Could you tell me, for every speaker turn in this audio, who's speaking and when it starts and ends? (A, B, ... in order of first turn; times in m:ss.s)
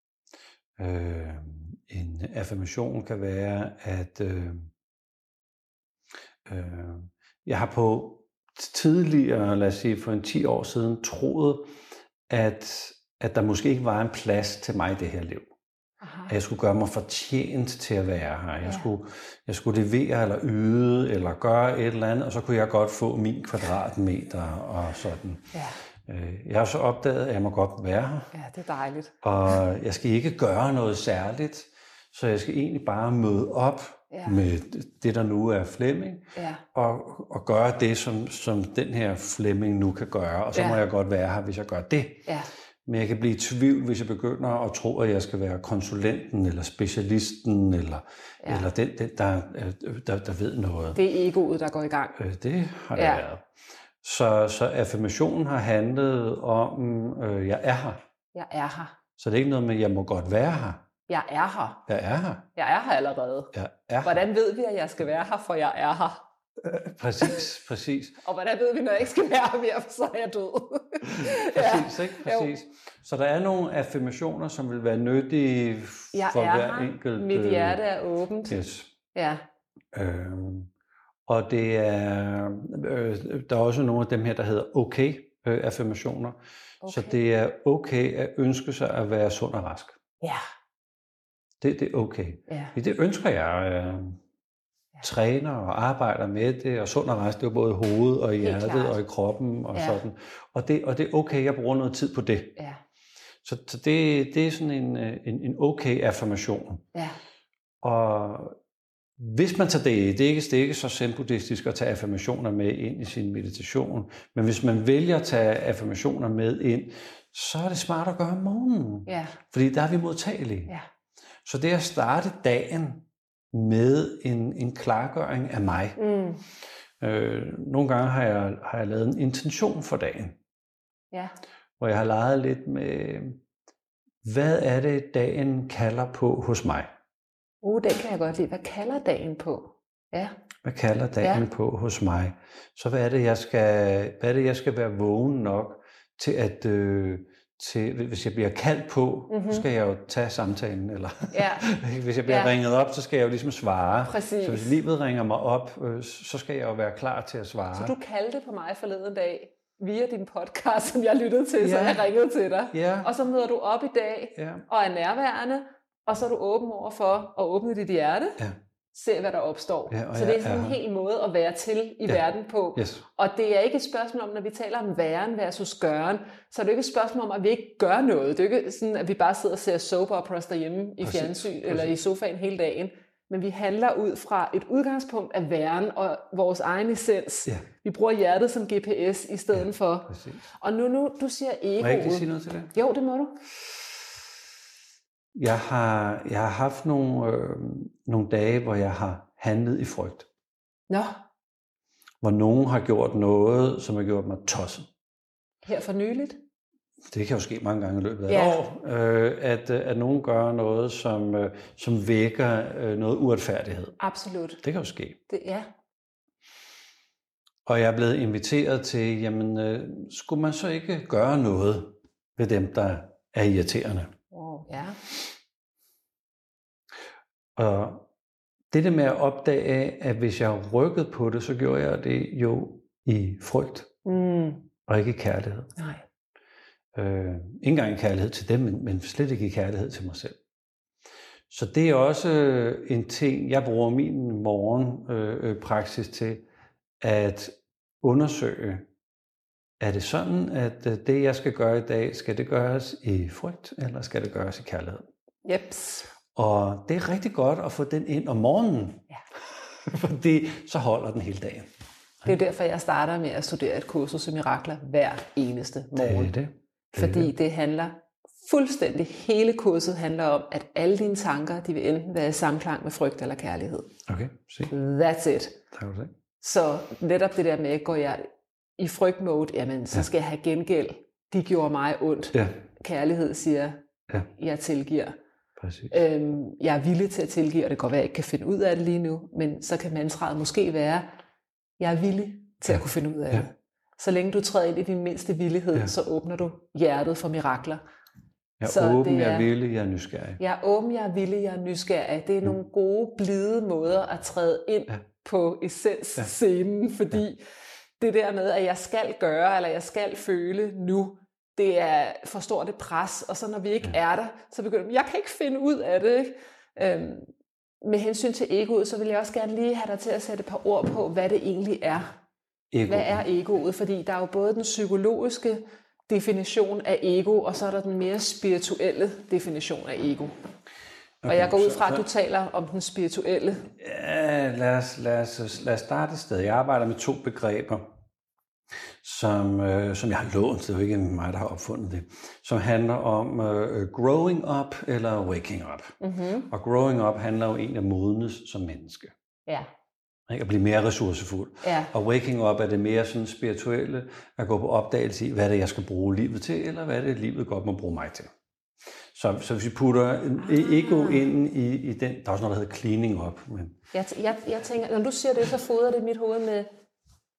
0:00.8-0:04.7 A
0:06.4-0:11.7 A
0:12.3-0:15.5 A
0:16.0-0:16.3 B
0:16.3-0:25.5 A
0:26.0-0:28.3 A
0:28.3-0:29.2 B
0:29.2-0:42.3 A
0:34.1-0:34.4 B
0:36.3-0:36.6 B
0:40.5-0:40.8 B
0:42.8-0:51.0 A
0:48.4-0:48.7 B
0:50.9-0:52.2 B
0:52.2-0:53.4 A
0:52.9-0:53.2 B
0:54.0-0:58.0 A
0:58.3-0:59.0 B
0:59.2-1:00.8 A
1:01.1-1:01.8 B
1:01.9-1:02.4 A
1:02.6-1:06.2 B
1:03.5-1:04.2 A
1:06.6-1:08.2 A
1:08.2-1:12.5 B
1:11.0-1:17.8 A
1:16.1-1:18.6 B
1:18.5-1:18.9 A
1:19.1-1:19.4 B
1:19.9-1:20.7 A
1:21.2-1:30.0 A
1:26.8-1:27.2 B
1:31.6-1:34.2 A
1:32.5-1:32.7 B
1:35.0-1:42.6 A
1:38.4-1:39.0 B
1:39.7-1:40.0 B
1:43.4-1:46.8 A
1:47.8-1:48.6 A
1:49.2-2:00.7 A
1:59.1-1:59.4 B
2:01.4-2:06.0 A
2:06.0-2:06.4 B
2:07.0-2:10.4 A
2:11.8-2:13.4 A
2:14.2-2:16.9 A
2:17.6-2:20.3 B
2:20.6-2:37.9 A
2:29.3-2:29.6 B
2:31.3-2:31.7 B
2:32.3-2:32.5 B
2:34.0-2:34.8 B
2:37.7-2:48.4 B
2:41.6-2:42.1 A
2:42.7-2:43.1 A
2:44.4-2:44.6 A
2:48.9-3:13.4 B
2:49.9-2:50.8 A
2:52.8-2:53.0 A
3:01.0-3:01.9 A
3:10.1-3:10.4 A
3:11.8-3:12.7 A
3:15.3-3:20.3 A
3:20.9-3:21.2 B
3:22.2-3:24.9 A
3:25.6-3:26.4 B
3:27.1-3:34.0 A
3:28.3-3:28.6 B
3:34.0-3:34.6 B
3:34.6-3:35.2 A
3:35.3-3:35.7 B
3:37.6-3:44.1 A
3:44.3-3:45.0 B
3:47.6-3:48.0 A
3:48.7-3:53.9 A
3:54.0-3:54.7 B
3:54.9-3:55.8 A
3:55.8-3:56.0 B
3:56.9-4:00.4 A
4:01.5-4:06.4 A
4:07.0-4:08.9 A
4:09.8-4:15.1 A
4:15.4-4:16.1 B
4:16.3-4:19.0 A
4:19.8-4:21.7 A
4:22.2-4:26.3 B
4:25.9-4:27.3 A
4:26.9-4:33.9 B
4:34.1-4:34.7 A
4:34.7-4:35.6 B
4:35.7-4:36.1 A
4:36.4-4:45.2 B
4:45.6-4:45.9 A
4:45.9-4:51.1 B
4:51.8-4:57.8 B
4:52.7-4:53.4 A
4:58.6-5:00.4 A
4:58.6-4:59.5 B
5:00.4-5:07.4 B
5:08.0-5:17.3 B
5:17.8-5:22.1 B
5:22.7-5:23.2 A
5:22.9-5:30.3 B
5:31.2-5:32.0 A
5:31.3-5:33.7 B
5:33.8-5:37.9 A
5:39.0-5:45.9 A
5:46.0-5:46.5 B
5:46.5-5:49.1 A
5:50.3-5:58.3 A
5:51.6-5:51.9 B
5:59.1-6:03.8 A
6:00.4-6:01.2 B
6:03.9-6:06.7 B